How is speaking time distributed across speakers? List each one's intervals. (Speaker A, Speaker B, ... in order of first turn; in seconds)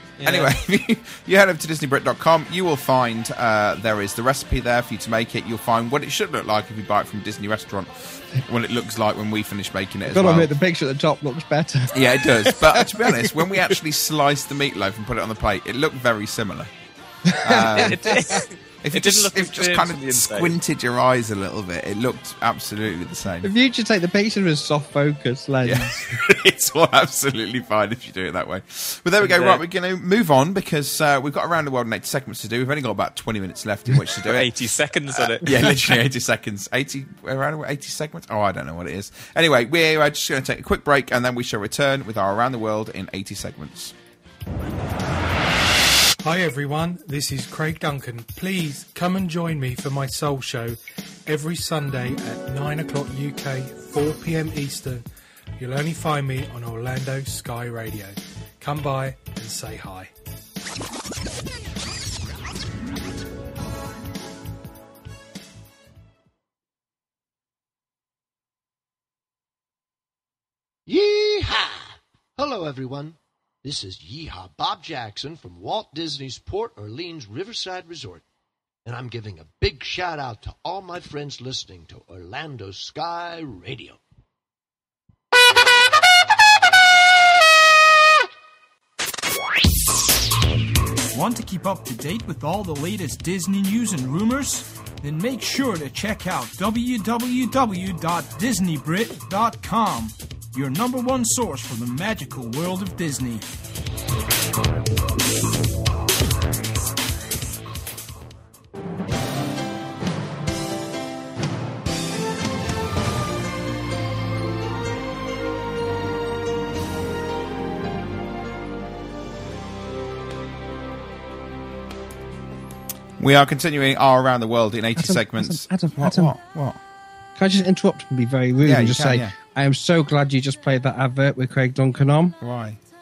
Speaker A: 0.2-0.5, 17.7-20.6, 29.2-29.6, 34.2-35.5
Speaker B: 0.2-10.5, 11.9-16.7, 17.4-18.2, 18.8-23.5, 25.6-34.5, 35.1-43.9, 123.2-126.8, 128.6-129.3, 132.4-132.8
Speaker C: 10.1-12.0, 17.2-18.4, 23.4-26.0, 125.0-126.3, 127.3-132.3
Speaker D: 46.2-55.0, 55.6-60.1
Speaker E: 70.9-78.2, 78.8-84.0
Speaker F: 91.1-103.4